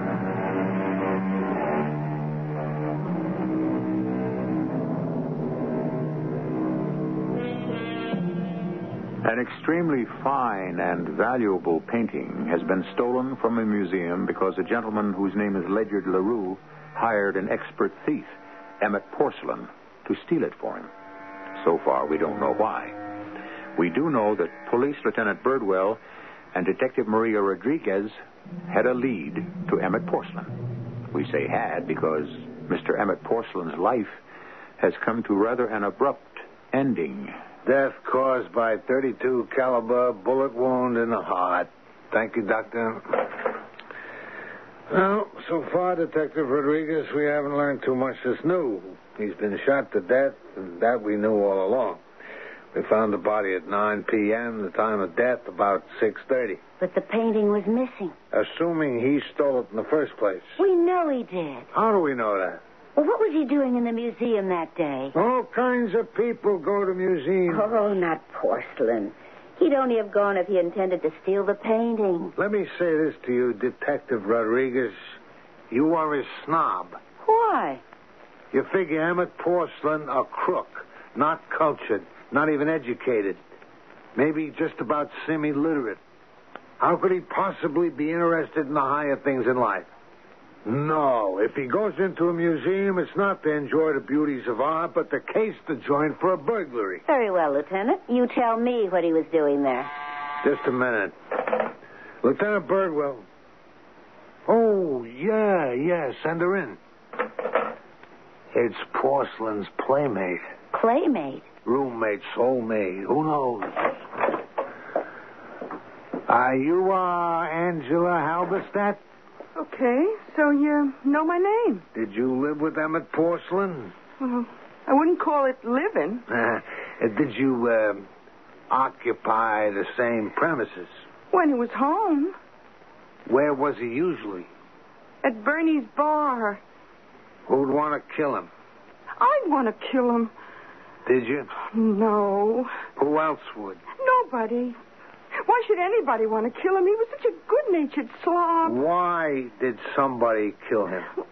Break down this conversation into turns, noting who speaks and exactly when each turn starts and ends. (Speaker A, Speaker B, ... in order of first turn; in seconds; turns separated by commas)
Speaker A: 9.2-20.9, Speaker A: 21.6-23.0, Speaker A: 23.8-26.0, Speaker A: 26.5-30.5, Speaker A: 31.1-34.2, Speaker A: 34.8-37.4, Speaker B: 37.6-43.4, Speaker B: 44.9-52.0, Speaker B: 52.7-56.6, Speaker C: 56.8-58.1, Speaker B: 58.3-60.5, Speaker C: 60.6-61.7, Speaker B: 61.7-62.6, Speaker C: 63.0-65.1, Speaker B: 65.1-67.7, Speaker C: 67.5-72.3, Speaker B: 72.4-75.1, Speaker B: 75.7-77.0, Speaker C: 77.2-77.8, Speaker B: 78.5-83.4, Speaker B: 84.1-86.0, Speaker B: 86.8-89.9, Speaker B: 90.6-97.0, Speaker C: 97.0-99.9, Speaker B: 100.4-101.7, Speaker B: 102.2-103.2, Speaker B: 104.5-106.8, Speaker B: 108.5-110.4, Speaker C: 110.7-111.5, Speaker B: 111.6-114.0, Speaker B: 116.3-119.0, Speaker D: 119.5-121.8, Speaker B: 121.9-123.9, Speaker D: 124.2-126.2, Speaker B: 126.3-128.1, Speaker B: 128.7-130.9, Speaker D: 131.3-132.3, Speaker B: 133.3-134.5, Speaker D: 135.2-136.6, Speaker B: 137.5-138.5, Speaker D: 139.2-140.3, Speaker B: 141.1-141.5, Speaker D: 141.6-142.8, Speaker B: 142.9-143.8, Speaker D: 143.9-144.8, Speaker D: 145.4-148.8, Speaker B: 148.6-151.1